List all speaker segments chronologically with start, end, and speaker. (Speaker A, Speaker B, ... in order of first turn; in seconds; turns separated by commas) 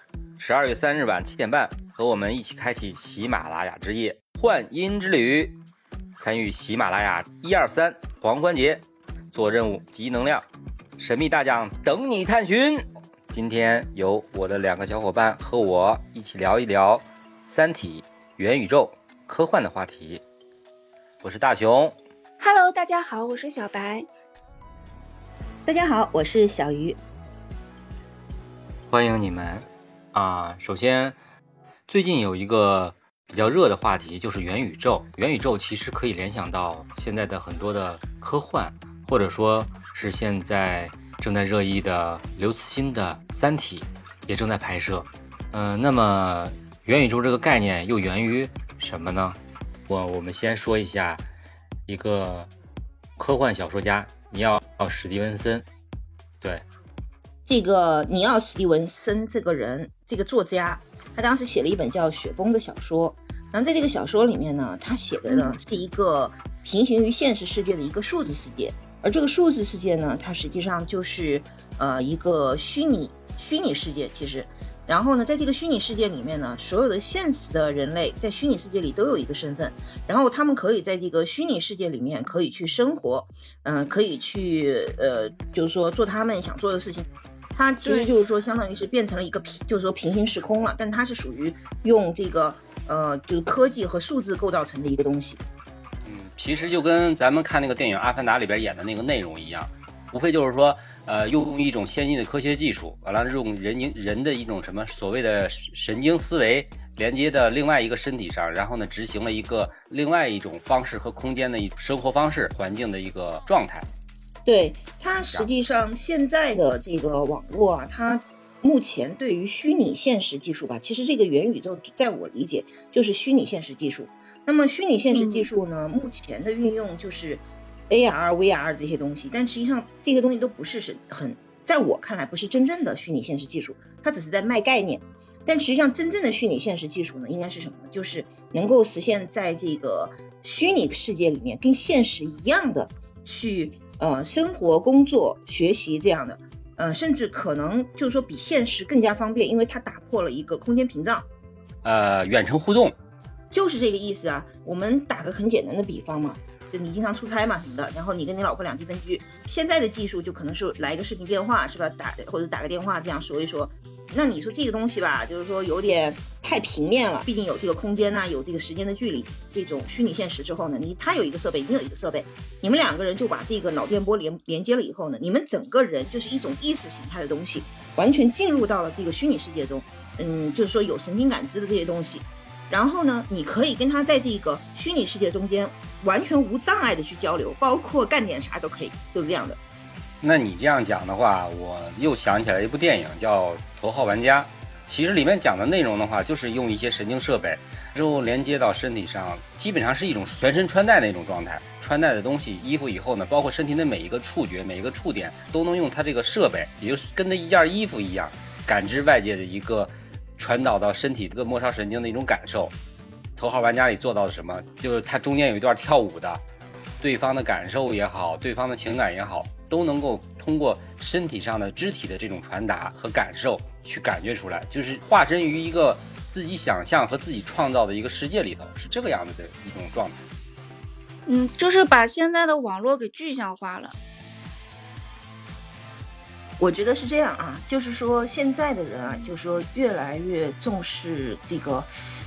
Speaker A: 0.4-5.5, Speaker A: 6.2-10.4, Speaker A: 11.0-20.2, Speaker A: 21.2-21.9, Speaker B: 22.4-24.1, Speaker C: 25.6-27.0, Speaker A: 28.9-31.1, Speaker A: 31.9-51.2, Speaker A: 51.9-52.5, Speaker A: 53.2-55.6, Speaker C: 57.5-95.4, Speaker A: 96.0-113.9, Speaker C: 114.4-151.2, Speaker B: 125.1-125.6, Speaker A: 151.8-152.9, Speaker C: 153.5-189.6, Speaker A: 190.2-212.7, Speaker A: 213.3-216.4, Speaker A: 217.0-230.2, Speaker B: 231.2-234.0, Speaker C: 236.6-241.9